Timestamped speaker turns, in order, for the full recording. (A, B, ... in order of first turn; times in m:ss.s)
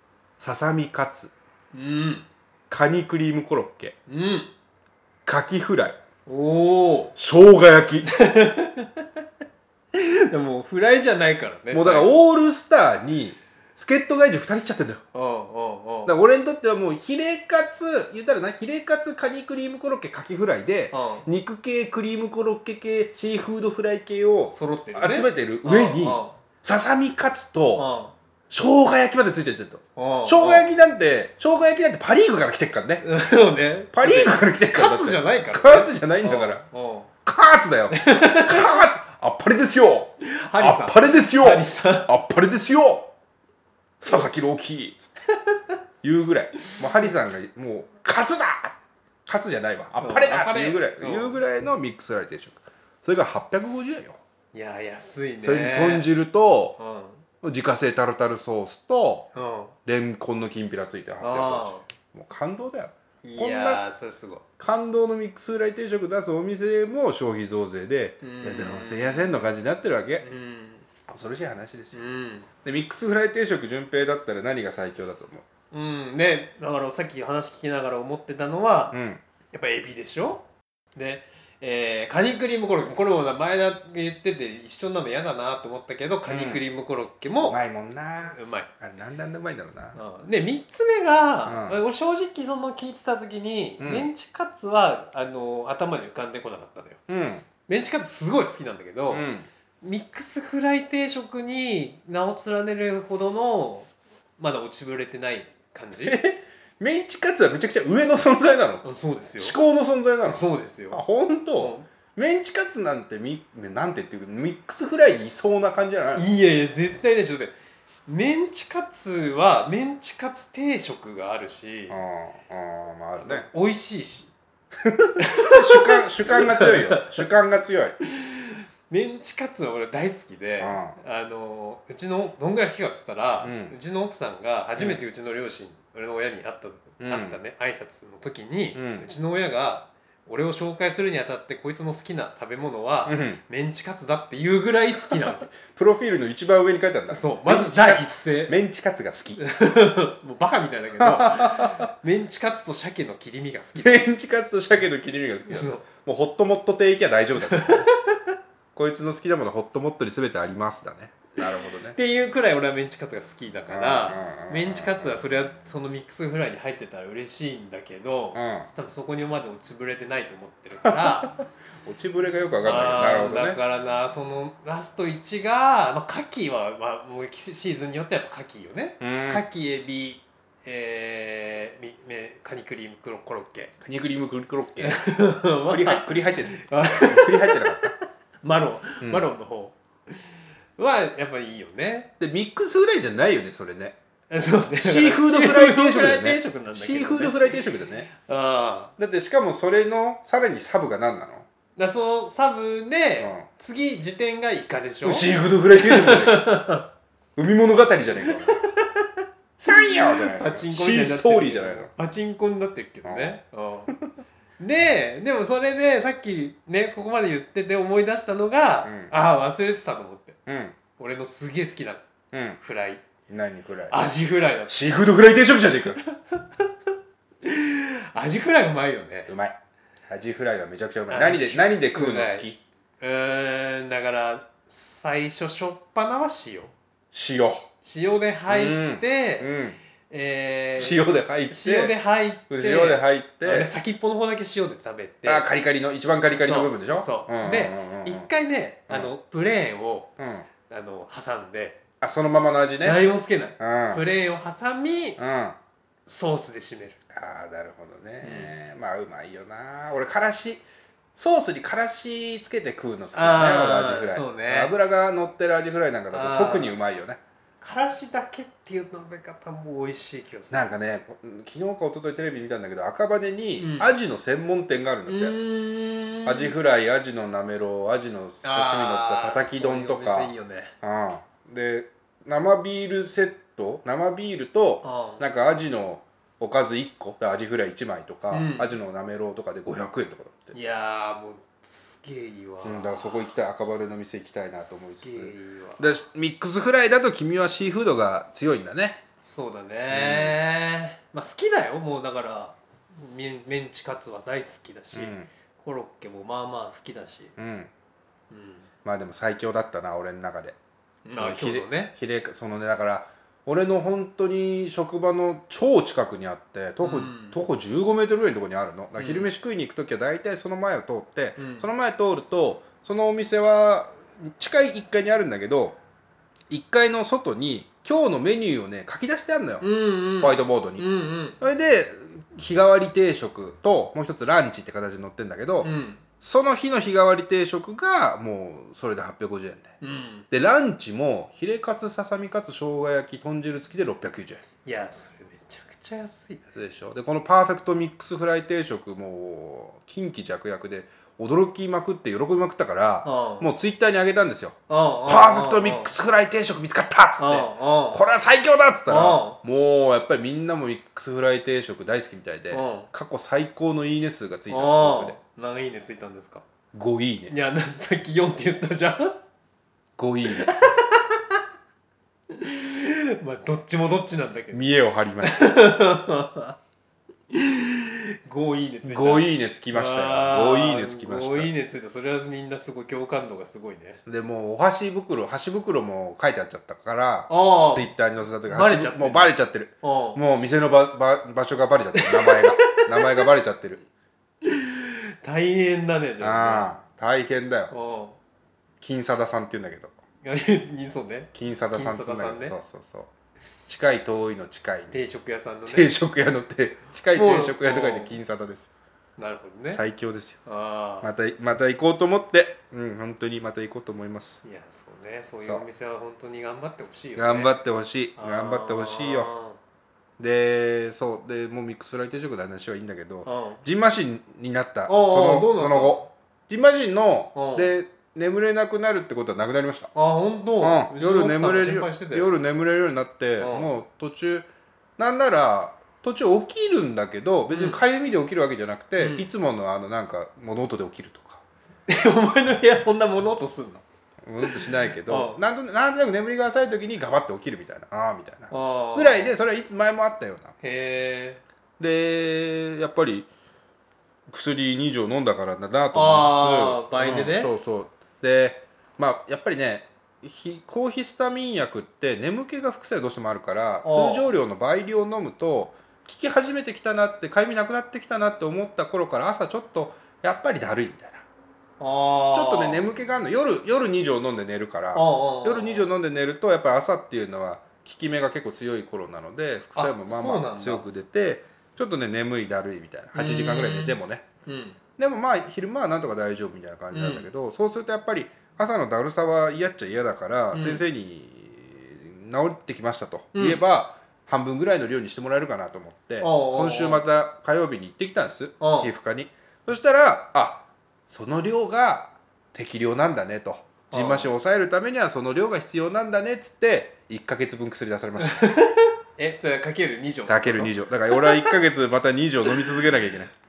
0:00.4-0:01.3 A
0:01.7-0:02.3 B
0:02.7-0:04.0 A
0:04.1-0:04.5 B
0:05.2-0:06.0 A
0:06.3-0:07.2 B
0:07.2-0:08.1 A
0:08.0-0:09.1 B
0:09.9-0:12.2 B
0:11.7-0:15.0 A
0:15.1-0:16.2 B
0:16.1-0:27.9 A
0:20.9-0:21.3 B
0:24.5-0:26.4 B
0:27.8-0:28.1 B
0:28.5-0:33.1 A
0:30.0-0:30.7 B
0:33.0-0:37.1 B
0:33.9-0:36.6 A
0:37.2-0:43.1 A
0:37.9-0:38.8 B
0:40.2-0:42.1 B
0:44.0-0:45.2 A
0:45.3-0:45.8 B
0:46.0-0:54.2 A
0:50.0-0:51.4 B
0:54.5-0:56.1 B
0:55.4-0:56.8 A
0:56.8-0:57.2 B
0:57.4-0:59.3 A
0:59.3-0:59.8 B
0:59.9-1:03.8 A
1:01.2-1:01.8 B
1:03.2-1:04.4 B
1:04.6-1:10.3 A
1:08.2-1:09.4 B
1:10.2-1:10.9 B
1:11.1-1:12.0 A
1:11.9-1:12.5 B
1:12.6-1:15.4 A
1:15.7-1:19.0 B
1:18.9-1:19.2 A
1:19.5-1:20.4 B
1:21.0-1:27.6 B
1:26.3-1:26.6 A
1:27.4-1:30.0 A
1:28.3-1:28.7 B
1:30.0-1:37.0 B
1:31.5-1:31.8 A
1:33.8-1:34.1 A
1:37.1-1:37.5 A
1:37.7-1:39.3 B
1:39.1-1:39.5 A
1:39.8-1:46.2 B
1:46.0-1:48.8 A
1:48.8-1:49.6 B
1:49.4-1:56.3 A
1:50.2-1:51.0 B
1:51.6-1:51.9 B
1:56.2-1:57.6 B
1:58.1-2:02.0 B
2:01.9-2:03.5 A
2:03.2-2:04.3 B
2:04.8-2:08.0 A
2:05.2-2:07.2 B
2:08.0-2:25.5 B
2:10.6-2:11.0 A
2:13.4-2:13.7 A
2:14.8-2:15.0 A
2:17.0-2:17.4 A
2:18.8-2:19.1 A
2:23.1-2:23.4 A
2:25.1-2:29.4 A
2:27.1-2:28.6 B
2:29.4-2:34.0 B
2:31.0-2:31.9 A
2:33.8-2:37.9 A
2:35.5-2:35.8 B
2:37.4-2:38.2 B
2:38.8-2:42.0 A
2:41.9-2:51.4 B
2:43.7-2:45.2 A
2:48.4-2:48.7 A
2:50.8-2:51.3 A
2:51.8-2:53.6 A
2:52.6-3:03.7 B
2:59.0-2:59.4 A
3:03.8-3:05.1 A
3:04.8-3:10.2 B
3:05.7-3:07.9 A
3:09.0-3:09.3 A
3:10.8-3:12.1 B
3:12.2-3:14.0 A
3:14.3-3:17.6 B
3:14.8-3:18.1 A
3:18.1-3:18.9 B
3:19.0-3:21.5 A
3:21.8-3:26.9 B
3:23.2-3:23.5 A
3:25.0-3:26.6 A
3:27.4-3:28.6 A
3:28.2-3:33.9 B
3:29.6-3:31.9 A
3:33.0-3:33.4 A
3:34.6-3:40.4 B
3:38.8-3:39.1 A
3:40.5-3:40.8 A
3:41.0-3:42.0 B
3:42.3-3:42.6 A
3:42.6-3:43.0 B
3:43.3-3:44.0 A
3:43.9-3:44.8 B
3:44.7-3:46.0 A
3:46.1-3:46.7 B
3:47.4-3:49.3 B
3:49.3-3:49.6 A
3:50.1-3:52.6 A
3:51.1-3:52.4 B
3:53.0-3:56.7 B
3:57.1-3:57.7 A
3:57.8-3:59.5 B
3:58.5-3:59.8 A
4:00.1-4:05.5 B
4:00.8-4:02.0 A
4:02.5-4:03.7 A
4:05.2-4:08.3 A
4:06.3-4:10.1 B
4:10.2-4:10.5 A
4:10.7-4:11.8 B
4:12.0-4:13.0 A
4:12.8-4:15.2 B
4:13.6-4:14.0 A
4:15.2-4:15.6 A
4:16.1-4:17.0 B
4:17.1-4:27.2 A
4:18.2-4:18.5 B
4:23.1-4:24.7 B
4:26.1-4:26.7 B
4:27.6-4:30.6 B
4:30.5-4:35.4 A
4:33.6-4:33.9 B
4:35.1-4:36.6 B
4:36.2-4:50.6 A
4:38.4-4:40.7 B
4:44.8-4:45.2 B
4:48.3-4:48.8 B
4:50.5-4:53.3 B
4:52.6-4:59.0 A
4:54.6-4:56.0 B
4:59.2-5:07.3 B
4:59.9-5:00.4 A
5:04.9-5:05.3 A
5:07.4-5:07.7 A
5:08.3-5:08.7 B
5:08.8-5:10.6 A
5:11.0-5:11.9 B
5:11.1-5:25.8 A
5:16.8-5:17.4 B
5:19.0-5:19.3 B
5:21.4-5:21.7 B
5:26.5-5:29.7 A
5:29.6-5:31.4 B
5:30.2-5:30.8 A
5:31.4-5:39.7 A
5:35.6-5:36.0 B
5:39.8-5:40.3 B
5:40.3-5:44.4 A
5:44.6-5:46.4 B
5:46.5-6:05.2 A
5:53.0-5:53.5 B
5:54.7-5:55.9 B
5:57.2-5:58.0 B
5:58.9-5:59.4 B
6:02.5-6:02.9 B
6:04.5-6:06.4 B
6:06.7-6:07.3 A
6:07.3-6:09.2 B
6:10.0-6:10.6 A
6:10.3-6:11.4 B
6:12.3-6:14.6 B
6:14.5-6:15.5 A
6:15.2-6:16.6 B
6:17.3-6:24.0 B
6:18.8-6:21.5 A
6:24.1-6:33.8 A
6:27.3-6:27.9 B
6:28.5-6:30.2 B
6:32.0-6:33.2 B
6:34.4-6:36.7 B
6:36.2-6:37.7 A
6:37.7-6:38.2 B
6:38.8-6:39.9 A
6:40.2-6:42.6 B
6:41.3-6:43.1 A
6:43.7-6:45.0 A
6:44.9-6:45.9 B
6:45.7-6:48.7 A
6:47.2-6:48.2 B
6:49.2-6:49.8 B
6:49.7-6:50.4 A
6:50.5-6:51.1 B
6:51.0-6:54.4 A
6:54.4-6:57.5 B
6:57.2-6:59.3 A
6:58.2-6:59.6 B
7:00.2-7:09.9 A
7:03.2-7:03.6 B
7:04.9-7:06.1 B
7:07.4-7:07.7 B
7:10.0-7:12.3 B
7:10.6-7:21.4 A
7:13.4-7:13.7 B
7:17.5-7:17.8 B
7:19.0-7:19.3 B
7:21.9-7:23.8 B
7:24.2-7:30.6 A
7:24.4-7:25.4 B
7:28.5-7:29.4 B
7:30.6-7:31.4 B
7:31.8-7:33.3 A
7:34.3-7:51.2 A
7:35.9-7:37.5 B
7:43.8-7:44.3 B
7:51.8-7:52.8 B
7:52.3-8:04.2 A
7:54.9-7:55.9 B
7:59.8-8:00.8 B
8:03.2-8:04.8 B
8:05.0-8:28.5 A
8:06.9-8:07.3 B
8:10.5-8:10.8 B
8:13.3-8:13.6 B
8:16.2-8:17.0 B
8:18.6-8:18.9 B
8:23.9-8:24.3 B
8:28.2-8:31.6 B
8:30.3-8:33.3 A
8:32.5-8:32.8 B